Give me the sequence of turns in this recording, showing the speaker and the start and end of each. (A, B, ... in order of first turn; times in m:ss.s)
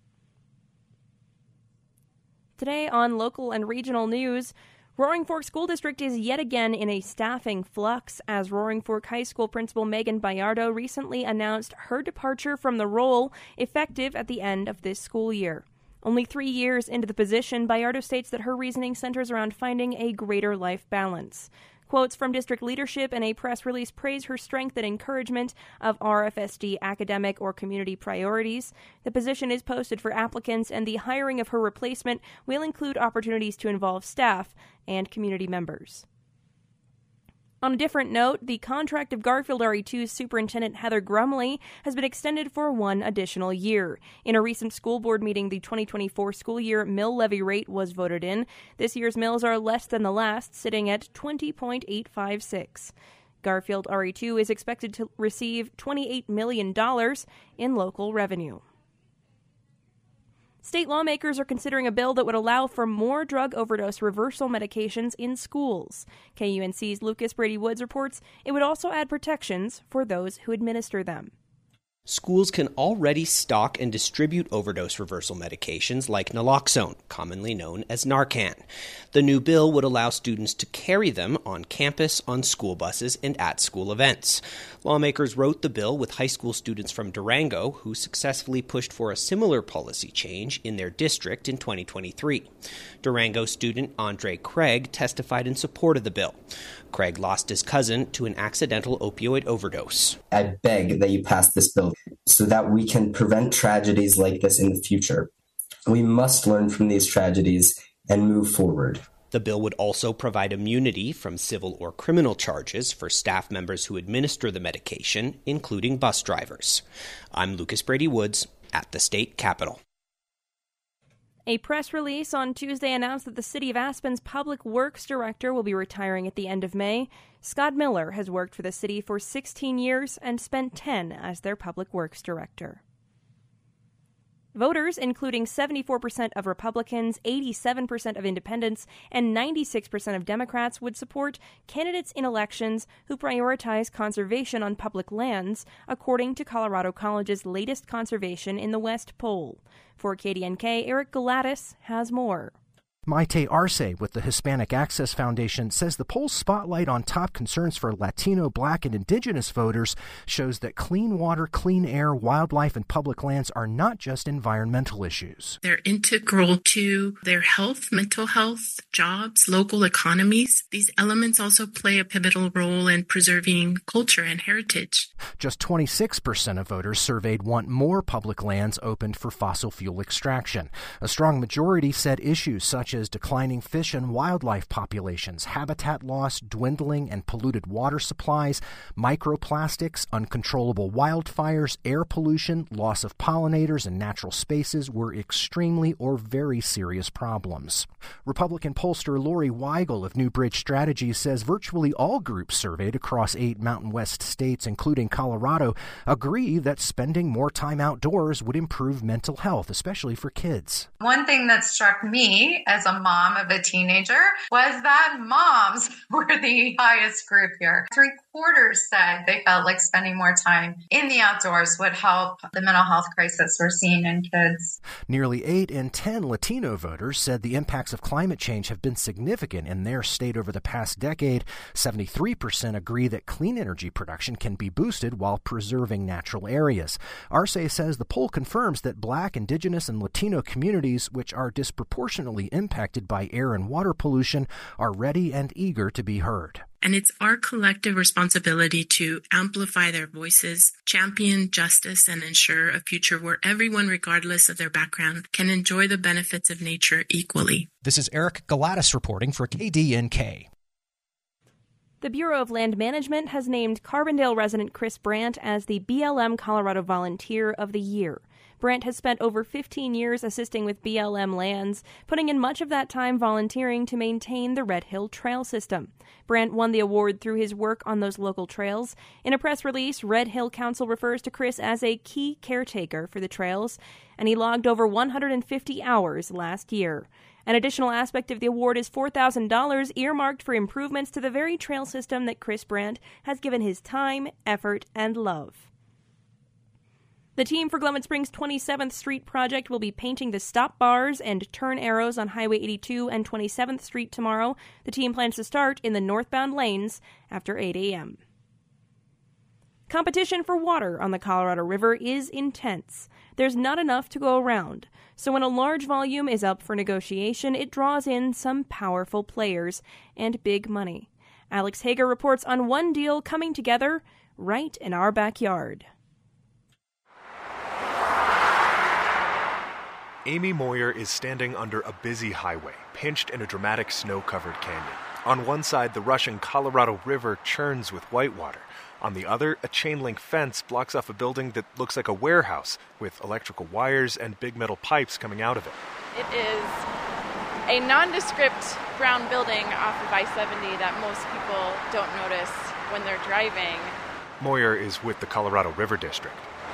0:02.6-0:36.0 A
0:37.6-0:58.6 A
1:00.6-1:11.3 A
1:12.1-1:32.5 B
1:33.0-1:40.2 B
1:40.3-1:45.3 C
1:45.9-1:49.0 C
1:49.3-1:59.8 B
2:01.5-2:12.8 A
2:14.5-2:32.5 A
2:33.1-2:45.6 D
2:45.6-2:55.1 E
2:55.4-3:30.9 D
3:31.0-3:44.7 F
3:45.1-4:06.6 D
4:06.8-4:17.7 E
4:17.8-4:20.5 D
4:22.0-4:55.7 A
4:57.4-5:08.2 A
5:09.9-5:25.9 A
5:30.2-5:45.8 G
5:46.1-5:46.8 H
5:47.7-5:53.9 H
5:54.4-5:56.5 G